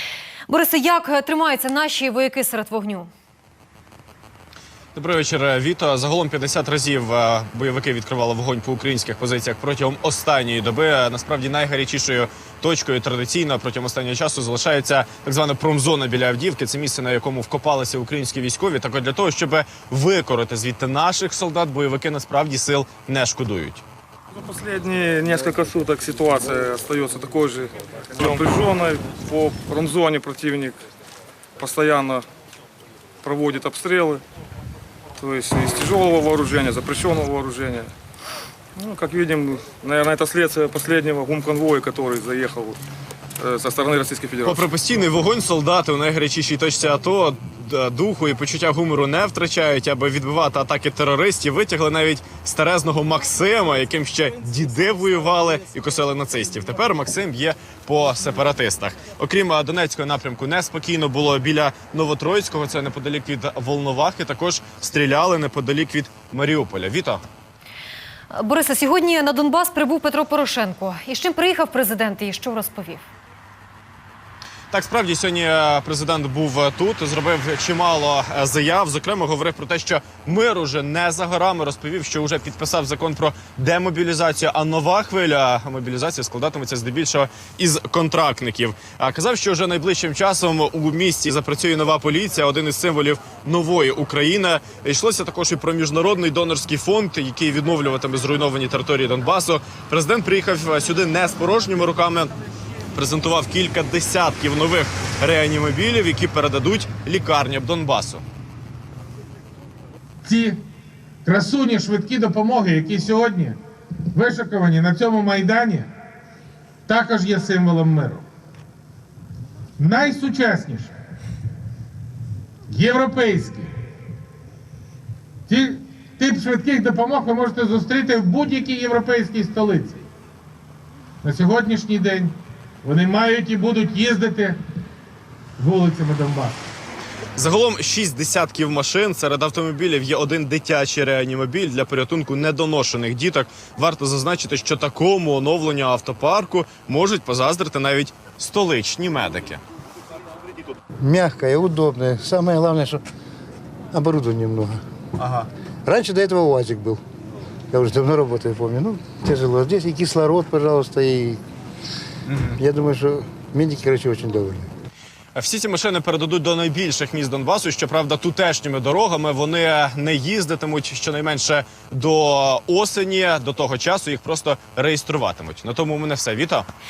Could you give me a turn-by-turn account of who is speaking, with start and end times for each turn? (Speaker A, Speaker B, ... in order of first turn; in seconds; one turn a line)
Speaker A: 0.5-3.1
Speaker B: 5.0-23.8
Speaker C: 24.3-30.8
Speaker C: 31.6-32.3
Speaker C: 33.2-34.2
Speaker C: 35.2-37.9
Speaker C: 38.8-42.8
Speaker C: 43.4-44.6
Speaker B: 44.5-67.2
Speaker A: 68.3-73.1
Speaker B: 74.7-102.3
Speaker B: 102.9-108.2
Speaker D: 110.2-110.6
Speaker D: 111.2-113.6
Speaker D: 114.1-115.9
Speaker D: 116.9-118.2
Speaker D: 119.8-120.9
Speaker D: 122.7-123.7
Speaker D: 125.5-130.0
Speaker D: 131.2-134.6
Speaker D: 135.6-136.6
Speaker B: 137.3-149.6
Speaker E: 151.0-153.0
Speaker E: 153.9-154.8
Speaker B: 155.2-155.5
Speaker E: 155.8-157.0
Speaker E: 157.7-161.4
Speaker B: 162.3-162.6
Speaker E: 162.6-164.7
Speaker B: 165.3-176.7